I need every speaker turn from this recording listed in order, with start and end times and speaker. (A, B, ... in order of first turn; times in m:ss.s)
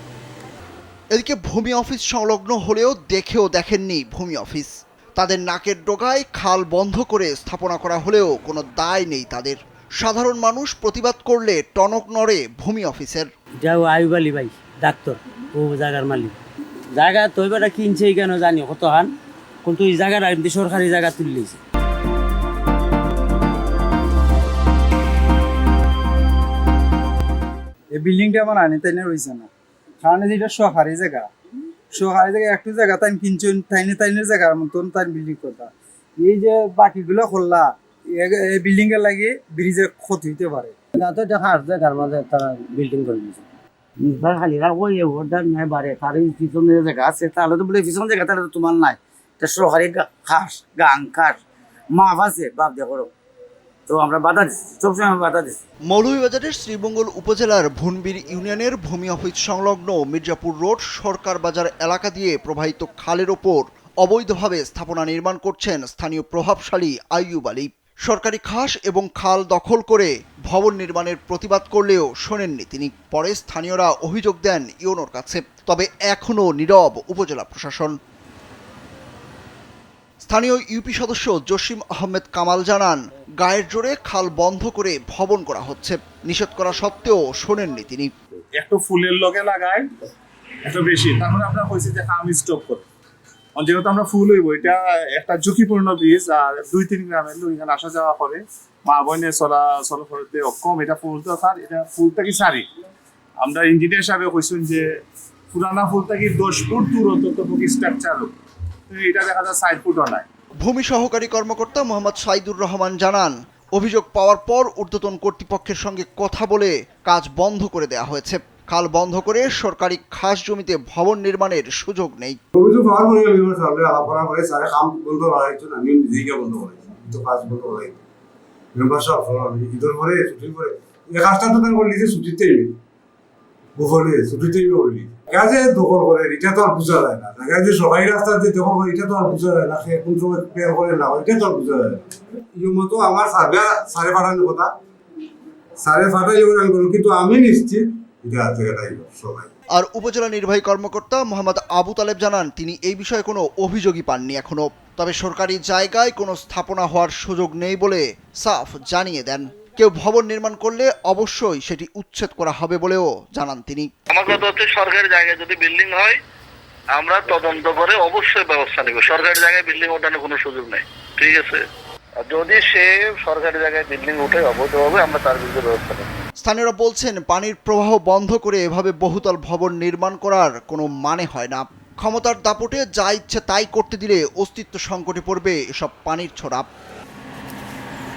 0:01.1-0:13.3 A
0:13.6-0:16.4 B
0:17.0-0:19.1 B
0:19.6-0:21.6 B
0:28.0-0:29.5 C
0:30.0-0:31.3 C
0:31.9-0:40.8 C
0:41.0-0:43.4 B
0:44.0-0:51.4 B
0:51.9-0:53.1 B
0:53.9-0:55.6 B
0:55.9-1:17.9 A
1:20.2-1:28.1 A
1:28.5-1:29.8 D
1:30.6-1:32.8 D
1:33.6-1:42.7 D
1:43.4-1:44.8 D
1:45.5-1:48.3 D
1:48.9-1:50.2 D
1:50.6-2:02.4 A
2:02.6-2:08.0 E
2:08.7-2:12.7 E
2:13.8-2:24.7 E
2:25.8-2:29.5 E
2:29.7-2:43.9 A
2:44.1-2:46.2 F
2:47.0-2:51.6 F
2:52.2-2:56.0 F
2:56.4-3:06.7 A